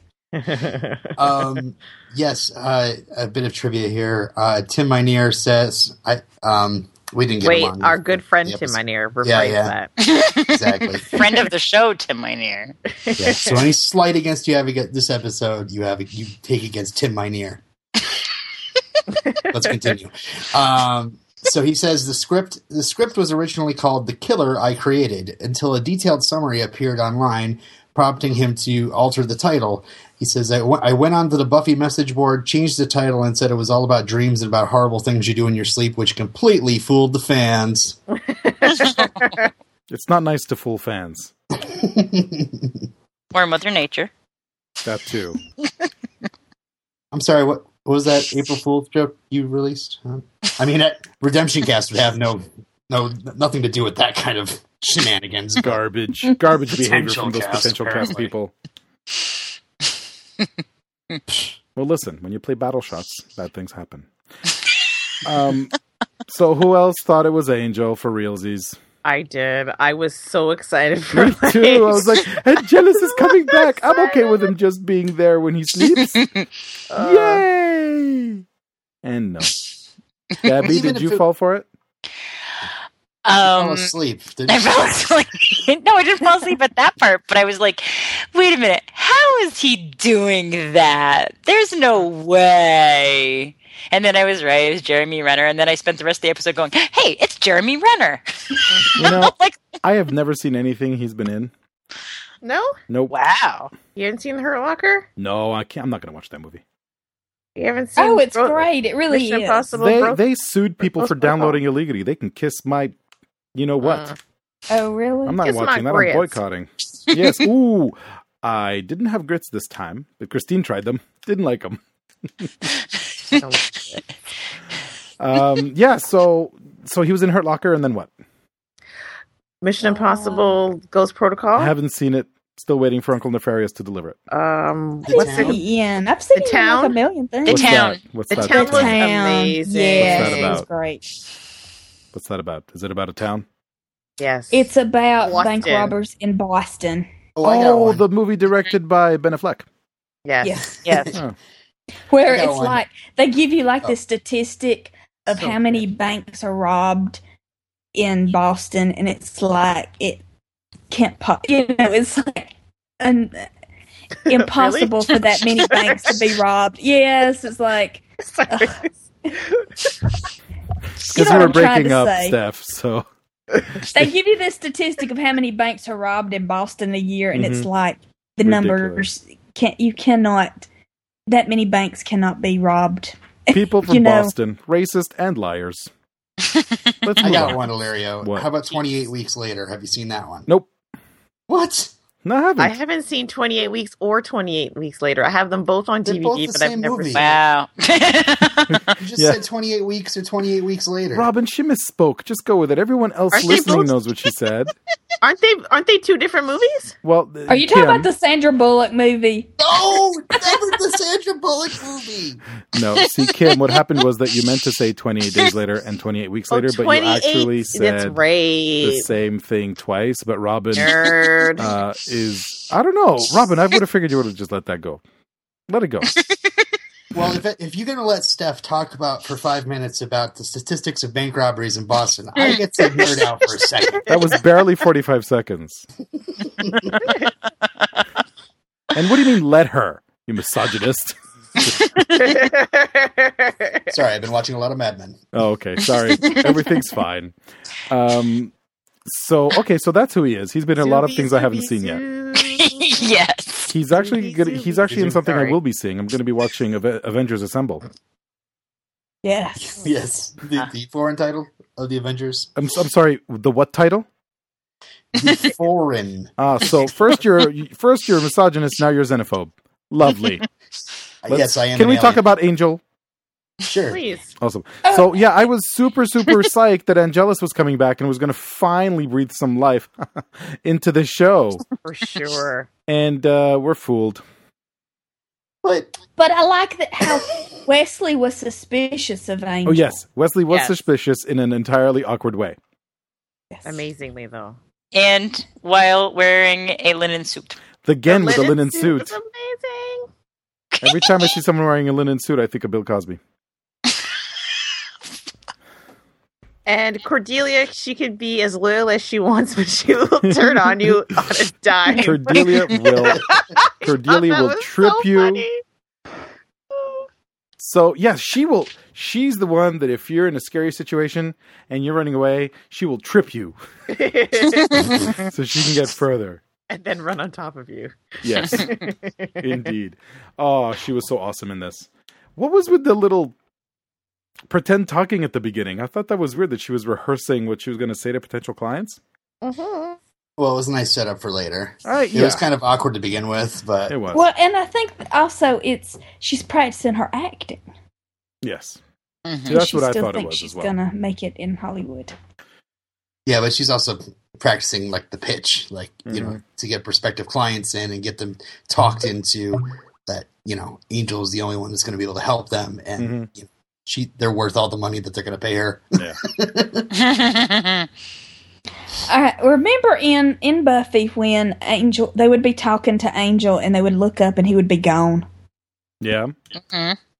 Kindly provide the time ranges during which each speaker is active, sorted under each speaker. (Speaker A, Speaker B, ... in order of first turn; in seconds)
Speaker A: 0.3-1.1, 7.4-9.9, 13.0-13.6, 19.1-19.7, 38.2-39.5, 69.0-74.5, 76.9-77.4, 102.4-102.8, 104.0-105.1, 107.5-110.2, 110.8-111.6, 113.8-114.1, 115.4-116.4, 123.3-124.0, 129.6-131.7, 134.3-135.6, 136.3-137.0, 138.3-140.6, 144.2-145.9, 150.2-151.2, 155.3-155.8, 164.3-166.2, 168.3-170.1, 171.2-171.5, 192.6-197.4, 203.3-203.9, 205.2-206.9, 216.5-219.1, 220.8-221.7, 242.0-243.8, 250.8-253.0, 253.9-255.6, 273.9-274.3, 281.8-282.7, 290.5-290.8, 293.6-294.6, 298.1-300.1, 306.6-315.6, 316.7-317.1, 323.9-324.9, 326.7-329.6, 339.4-340.0
Speaker B: 1.2-9.8, 10.5-11.1, 13.2-17.6, 19.5-38.0, 41.5-42.8, 47.1-55.8, 56.8-58.3, 80.6-81.2, 83.4-85.0, 135.1-135.6, 147.3-148.0, 152.2-152.8, 187.2-190.5, 191.5-191.9, 196.0-197.2, 199.0-201.3, 209.6-212.4, 227.1-234.2, 243.9-245.2, 254.9-255.3, 259.6-262.5, 265.1-266.3, 271.2-272.2, 273.6-274.0, 285.6-285.9, 340.4-343.9, 353.2-366.9
Speaker C: 10.0-12.8, 43.3-44.1, 75.9-76.5, 83.2-83.9, 84.5-99.8, 103.1-103.7, 137.5-138.0, 197.1-198.8, 213.5-213.8, 252.4-253.7, 294.9-297.6, 300.7-301.3, 324.8-325.1, 349.2-349.5, 366.9-367.9, 376.6-377.0
Speaker D: 39.9-41.3, 44.8-45.4, 55.6-58.5, 61.8-64.1, 65.2-65.8, 66.3-68.8, 71.1-76.2, 76.9-78.4, 79.0-79.6, 80.4-81.7, 99.0-101.5, 102.9-103.1, 105.2-106.6, 109.8-112.9, 113.5-114.1, 115.2-121.8, 125.2-128.1, 131.6-134.2, 137.5-139.1, 140.0-140.7, 142.1-143.4, 147.4-149.7, 171.1-173.1, 177.3-177.7, 178.4-179.1, 183.5-185.9, 187.0-187.7, 188.2-188.5, 192.2-192.7, 198.7-199.4, 201.1-204.7, 207.0-208.1, 212.7-218.2, 218.8-225.0, 225.7-226.2, 234.1-235.9, 238.9-241.9, 245.3-247.3, 247.9-248.5, 249.1-252.0, 253.7-257.8, 262.6-264.1, 266.4-270.4, 271.3-272.8, 274.4-281.6, 282.9-284.2, 289.6-292.6, 297.8-299.1, 300.8-303.2, 310.2-311.0, 311.9-313.2, 313.8-315.4, 317.6-323.6, 324.9-326.4, 328.2-328.7, 329.4-333.3, 334.5-339.0, 341.8-342.4, 343.9-344.2, 348.4-348.8, 349.4-350.7, 356.1-356.4, 363.0-363.3, 376.0-376.3
Speaker E: 108.0-109.7, 114.7-115.4, 129.8-130.6, 135.1-137.8, 138.3-141.0, 144.5-147.1, 150.4-151.1, 152.1-157.2, 157.9-160.2, 160.9-163.5, 164.3-168.8, 171.0-172.4, 173.9-180.7, 181.3-184.3, 207.5-209.5, 259.2-259.9, 274.8-275.1, 286.2-290.0, 293.5-293.8, 344.1-347.6, 349.5-352.1, 369.1-375.2